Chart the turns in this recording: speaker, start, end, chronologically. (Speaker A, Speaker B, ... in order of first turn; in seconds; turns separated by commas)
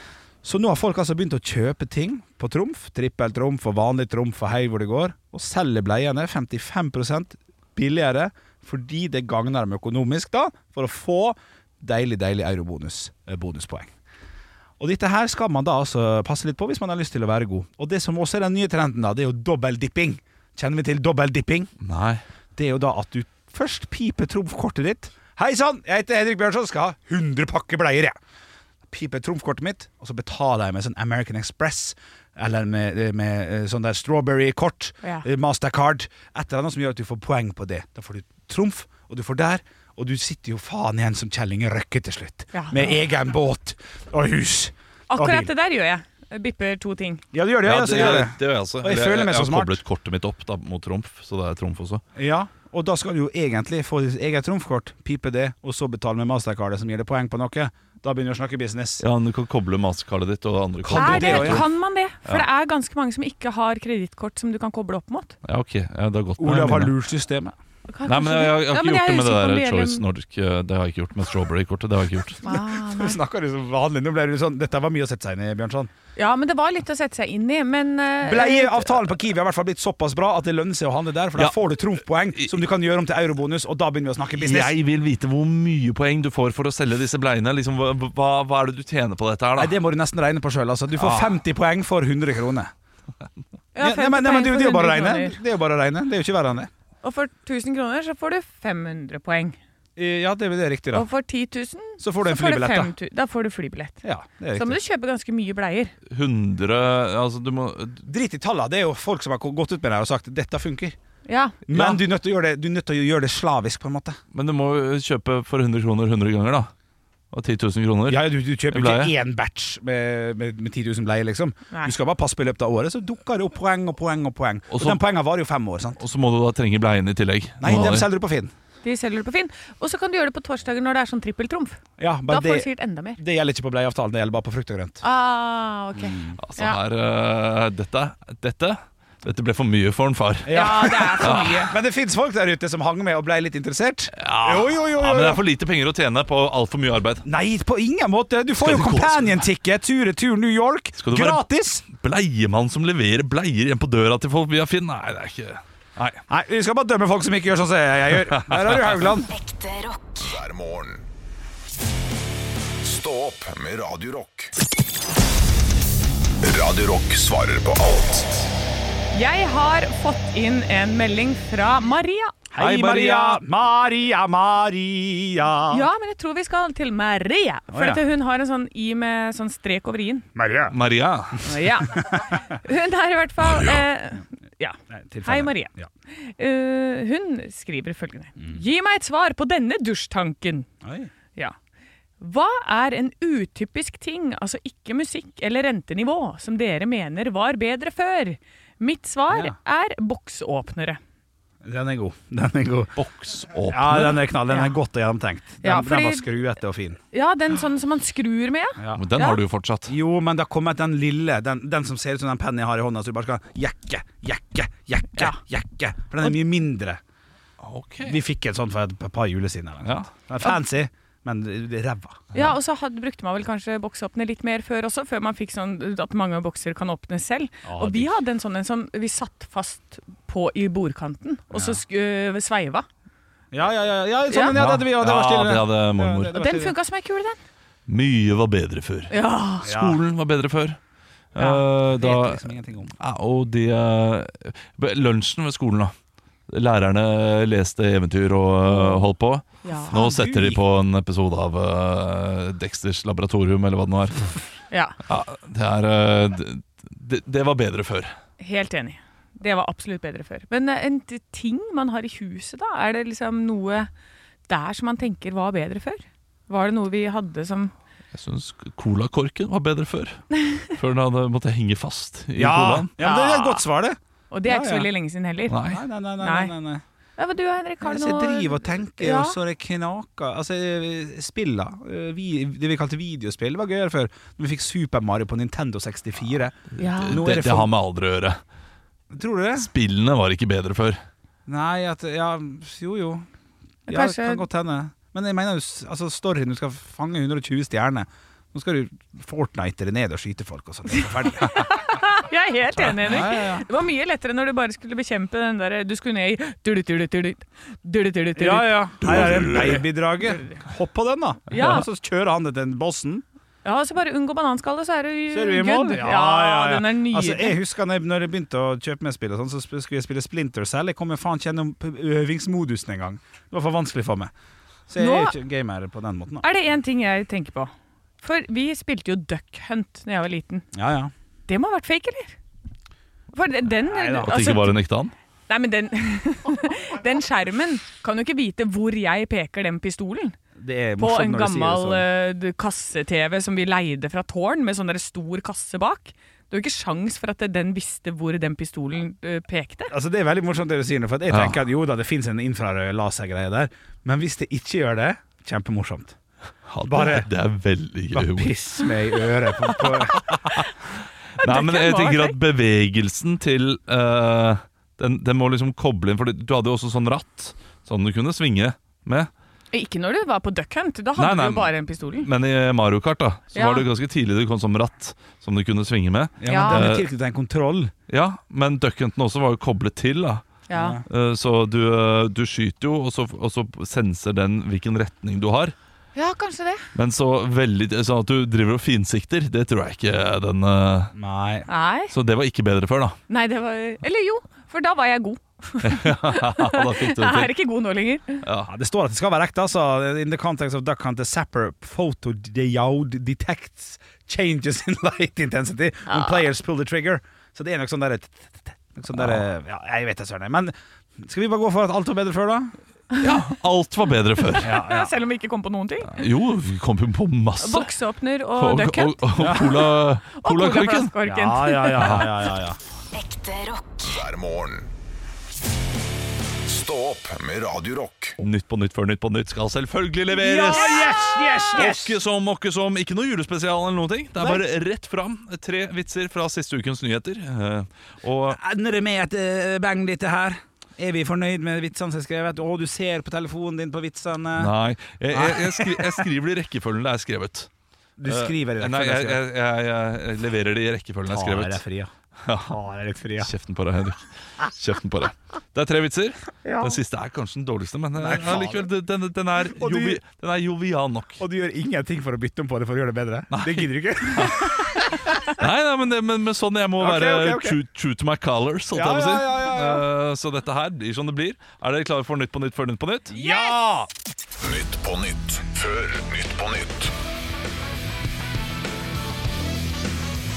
Speaker A: 0.4-13.9, Speaker A: 14.8-21.7, Speaker B: 21.8-22.2, Speaker A: 22.6-28.1, Speaker A: 28.9-45.5, Speaker C: 42.5-42.9, Speaker C: 45.1-47.2, Speaker A: 47.3-49.8, Speaker B: 47.6-52.0, Speaker A: 52.1-59.0, Speaker B: 59.0-61.7, Speaker A: 60.8-61.7, Speaker C: 60.9-65.3, Speaker B: 65.4-66.9, Speaker A: 66.4-67.5, Speaker C: 67.9-70.0, Speaker B: 68.0-72.4, Speaker C: 72.4-73.2, Speaker A: 72.5-75.9, Speaker C: 76.2-78.9, Speaker A: 78.2-84.7, Speaker B: 84.3-89.7, Speaker A: 89.6-92.7, Speaker B: 91.0-91.4, Speaker C: 93.7-95.4, Speaker A: 93.8-96.7, Speaker C: 97.0-99.6, Speaker A: 100.0-101.1, Speaker C: 100.9-104.0, Speaker A: 102.0-102.9, Speaker A: 104.0-104.8, Speaker C: 104.5-105.9, Speaker B: 106.0-108.0, Speaker A: 108.0-111.0, Speaker C: 111.2-111.6, Speaker A: 111.7-114.2, Speaker B: 111.7-112.0, Speaker B: 114.3-116.7, Speaker B: 117.3-119.1, Speaker A: 118.1-126.0, Speaker B: 124.7-125.0, Speaker B: 126.0-128.1, Speaker A: 127.6-128.5, Speaker C: 128.8-133.2, Speaker A: 132.0-135.0, Speaker C: 135.0-136.8, Speaker A: 135.9-136.4, Speaker B: 136.4-141.7, Speaker A: 140.4-145.4, Speaker C: 140.5-141.7, Speaker B: 144.1-147.2, Speaker A: 147.2-151.8, Speaker B: 148.6-149.4, Speaker B: 151.0-156.2, Speaker A: 156.3-159.3, Speaker B: 158.3-158.8, Speaker D: 159.3-161.1, Speaker D: 162.8-164.5, Speaker D: 166.4-168.5, Speaker C: 169.1-173.4, Speaker A: 172.5-175.9, Speaker C: 175.7-180.2, Speaker A: 177.7-178.0, Speaker A: 180.3-180.8, Speaker B: 180.7-181.5, Speaker A: 181.3-182.4, Speaker C: 181.4-190.7, Speaker B: 183.5-183.8, Speaker A: 184.9-185.9, Speaker A: 190.8-191.1, Speaker C: 192.2-201.0, Speaker A: 201.6-202.9, Speaker B: 202.9-204.3, Speaker A: 203.7-207.0, Speaker C: 205.6-206.2, Speaker C: 207.1-209.4, Speaker A: 208.8-209.0, Speaker B: 208.9-209.9, Speaker A: 209.9-217.0, Speaker B: 217.6-218.2, Speaker A: 218.0-222.4, Speaker C: 222.3-232.8, Speaker A: 227.6-228.1, Speaker A: 231.5-231.8, Speaker A: 233.5-236.7, Speaker C: 234.3-234.6, Speaker B: 234.5-236.3, Speaker C: 236.3-237.4, Speaker B: 237.9-240.8, Speaker C: 239.1-239.7, Speaker A: 239.6-240.0, Speaker B: 241.3-245.9, Speaker C: 241.4-241.6, Speaker A: 241.8-242.9, Speaker B: 246.5-254.3, Speaker C: 248.7-249.1, Speaker C: 249.6-250.0, Speaker A: 249.9-250.6, Speaker C: 254.7-255.0, Speaker B: 255.1-258.1, Speaker C: 258.4-263.9, Speaker C: 264.5-267.7, Speaker B: 268.1-272.9, Speaker A: 272.4-274.9, Speaker C: 273.0-273.6, Speaker C: 274.3-275.6, Speaker B: 275.5-275.8, Speaker A: 275.6-276.8, Speaker C: 276.2-276.5, Speaker C: 277.2-279.4, Speaker A: 277.8-287.7, Speaker C: 286.8-287.2, Speaker B: 286.8-288.4, Speaker A: 289.1-289.7, Speaker B: 289.6-291.0, Speaker A: 291.5-293.2, Speaker C: 293.9-294.4, Speaker A: 293.9-301.6, Speaker C: 301.4-310.6, Speaker A: 303.0-303.6, Speaker A: 308.4-313.2, Speaker B: 309.0-309.8, Speaker C: 311.5-311.9, Speaker C: 313.6-317.6, Speaker A: 315.3-324.3, Speaker A: 324.9-326.5, Speaker C: 325.0-325.4, Speaker C: 326.4-330.6, Speaker A: 330.7-331.1, Speaker C: 331.5-332.4, Speaker C: 333.3-334.7, Speaker A: 333.9-334.6, Speaker B: 334.2-335.1, Speaker C: 335.5-340.4, Speaker A: 340.6-342.0, Speaker C: 341.0-349.9, Speaker A: 349.9-356.1, Speaker B: 351.3-351.6, Speaker B: 356.6-358.5, Speaker A: 356.9-357.3, Speaker A: 358.1-360.6, Speaker B: 361.4-369.3, Speaker C: 361.4-362.4, Speaker C: 369.7-372.3, Speaker B: 371.1-377.1, Speaker C: 373.5-373.9, Speaker A: 376.4-377.9, Speaker C: 376.5-376.9, Speaker B: 378.1-380.4, Speaker C: 380.7-381.0, Speaker A: 380.7-381.0, Speaker B: 381.1-385.7, Speaker C: 386.1-386.9, Speaker B: 386.9-391.1, Speaker A: 391.1-391.7, Speaker C: 391.7-392.1, Speaker B: 392.1-393.2, Speaker C: 393.3-398.4, Speaker B: 395.8-397.5, Speaker B: 398.4-398.7, Speaker A: 398.7-412.7, Speaker C: 406.1-406.4, Speaker B: 409.1-409.4, Speaker B: 413.2-414.8, Speaker A: 414.6-415.1, Speaker C: 414.7-416.3, Speaker B: 416.0-417.9, Speaker C: 417.6-422.4, Speaker B: 418.6-421.1, Speaker A: 419.4-419.7, Speaker A: 421.2-422.8, Speaker B: 421.9-422.3, Speaker D: 423.1-424.9, Speaker D: 426.6-428.4, Speaker B: 428.4-431.1, Speaker A: 430.3-432.1, Speaker C: 430.7-431.8, Speaker B: 431.7-438.6, Speaker A: 438.5-444.7, Speaker B: 444.5-447.7, Speaker A: 445.3-446.2, Speaker A: 448.2-449.4, Speaker B: 448.2-451.8, Speaker A: 451.2-452.1, Speaker B: 452.4-452.8, Speaker A: 452.7-453.5, Speaker B: 453.4-461.4, Speaker A: 458.2-458.9, Speaker A: 459.6-460.2, Speaker A: 461.4-465.5, Speaker B: 463.5-464.7, Speaker B: 465.5-473.3, Speaker A: 467.0-467.8, Speaker A: 468.9-470.1, Speaker A: 473.3-474.1, Speaker C: 473.3-473.8, Speaker D: 474.6-477.1